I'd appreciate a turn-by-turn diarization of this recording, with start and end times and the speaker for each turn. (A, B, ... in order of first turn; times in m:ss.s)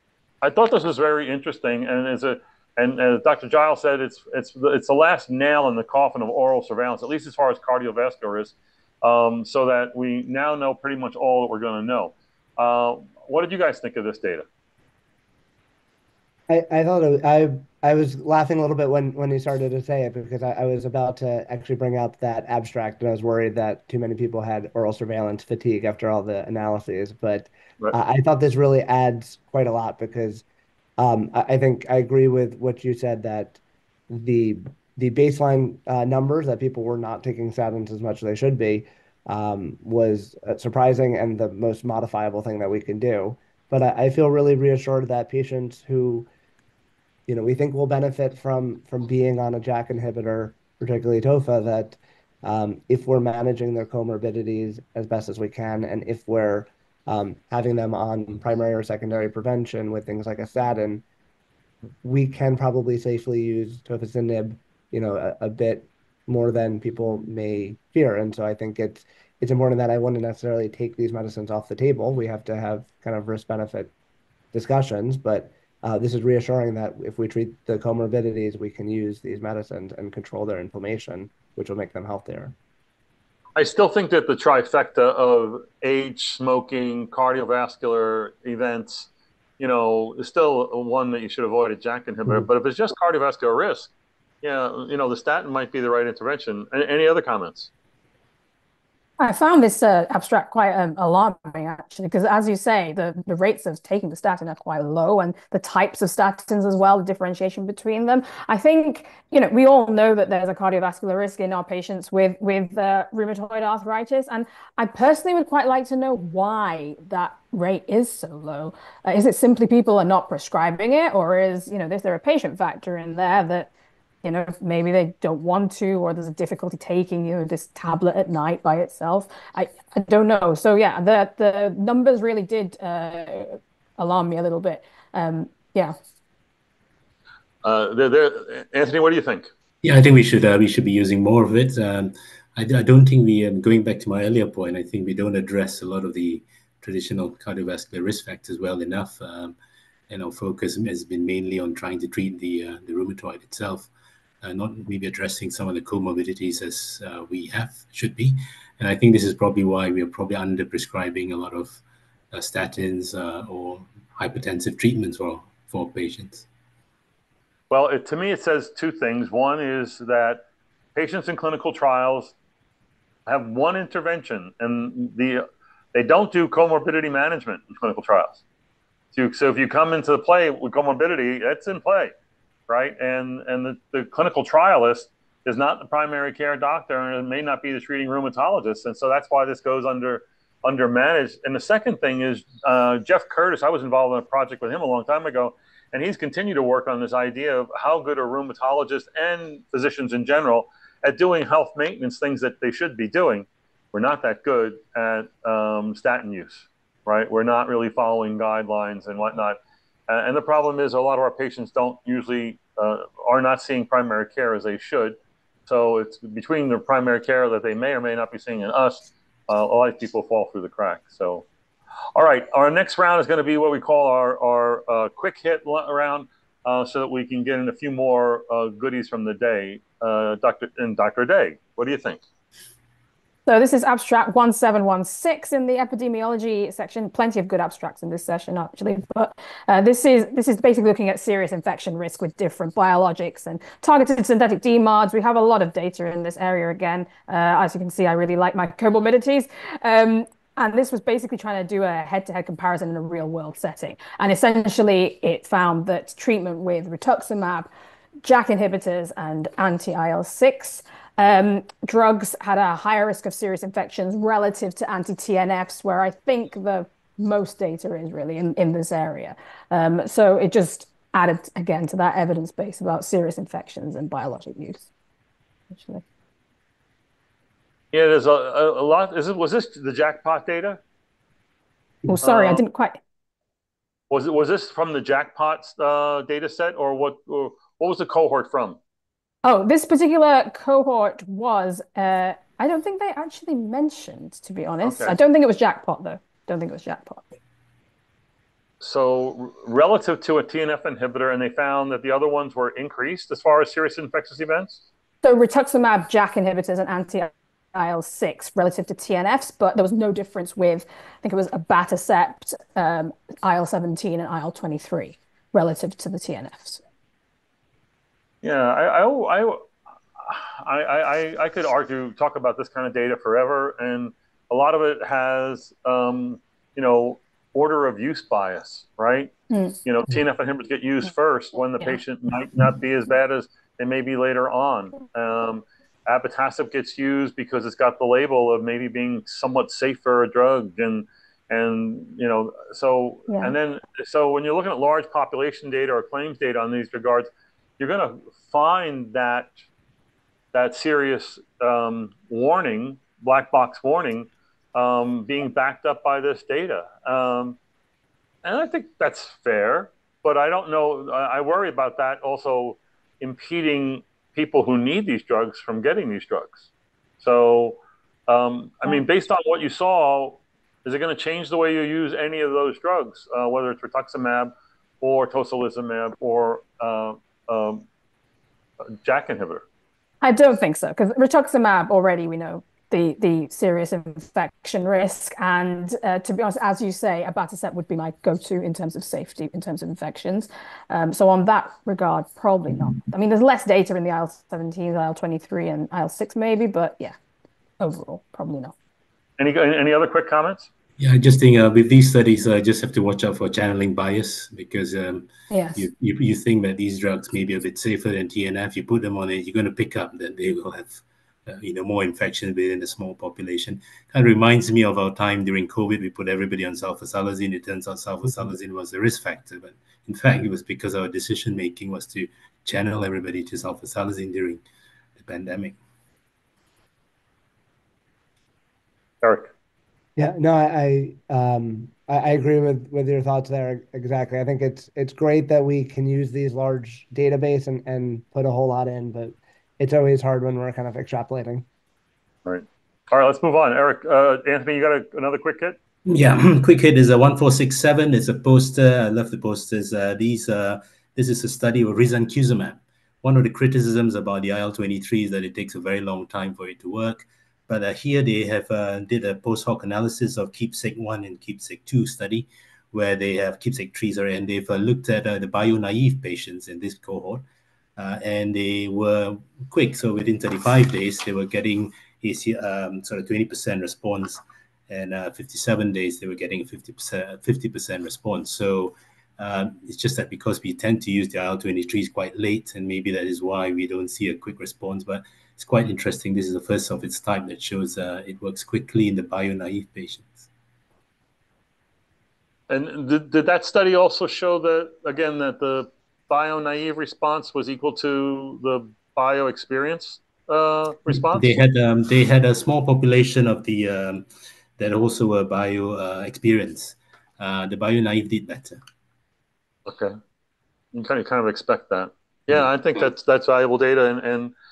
0:00.4-0:14.4 A
0:16.5-0:30.4 B
0:31.0-0:46.3 B
0:47.3-1:01.0 B
1:02.0-1:13.9 B
1:14.5-1:22.5 B
1:23.6-1:33.9 A
1:34.4-1:37.7 A
1:39.2-2:03.7 C
2:04.2-2:15.9 C
2:17.6-2:19.5 A
2:19.8-2:29.5 D
2:30.1-2:33.9 D
2:34.4-2:41.8 D
2:42.3-2:46.4 D
2:47.7-2:50.4 A
2:50.9-2:52.3 A
2:53.2-2:58.4 A
2:59.1-3:02.1 A
3:02.7-3:41.4 A
3:42.1-3:52.2 A
3:53.4-4:17.7 C
4:18.2-4:34.9 C
4:35.7-4:36.0 C
4:37.9-4:40.8 A
4:42.0-4:43.0 C
4:42.2-4:42.6 A
4:44.1-4:48.8 A
4:49.4-4:57.2 C
4:54.8-4:55.2 A
4:58.8-5:04.8 A
5:05.2-5:16.8 C
5:18.4-5:19.7 A
5:20.2-5:29.3 A
5:29.5-5:29.8 C
5:29.8-5:49.5 A
5:43.3-5:43.5 C
5:50.5-5:57.6 A
5:58.4-6:06.7 A
6:07.2-6:17.8 A
6:19.0-6:19.6 A
6:20.2-6:37.1 C
6:37.8-6:38.7 C
6:39.4-6:40.7 A
6:41.0-7:04.6 D
6:45.5-6:45.8 C
7:05.2-7:05.8 D
7:09.2-7:09.5 A
7:10.2-7:21.6 B
7:22.4-7:25.8 A
7:26.0-7:47.4 D
7:48.0-8:10.5 D
8:12.7-8:21.6 A
8:21.3-8:24.2 D
8:24.8-8:28.8 D
8:29.8-8:30.2 A
8:30.9-8:34.5 A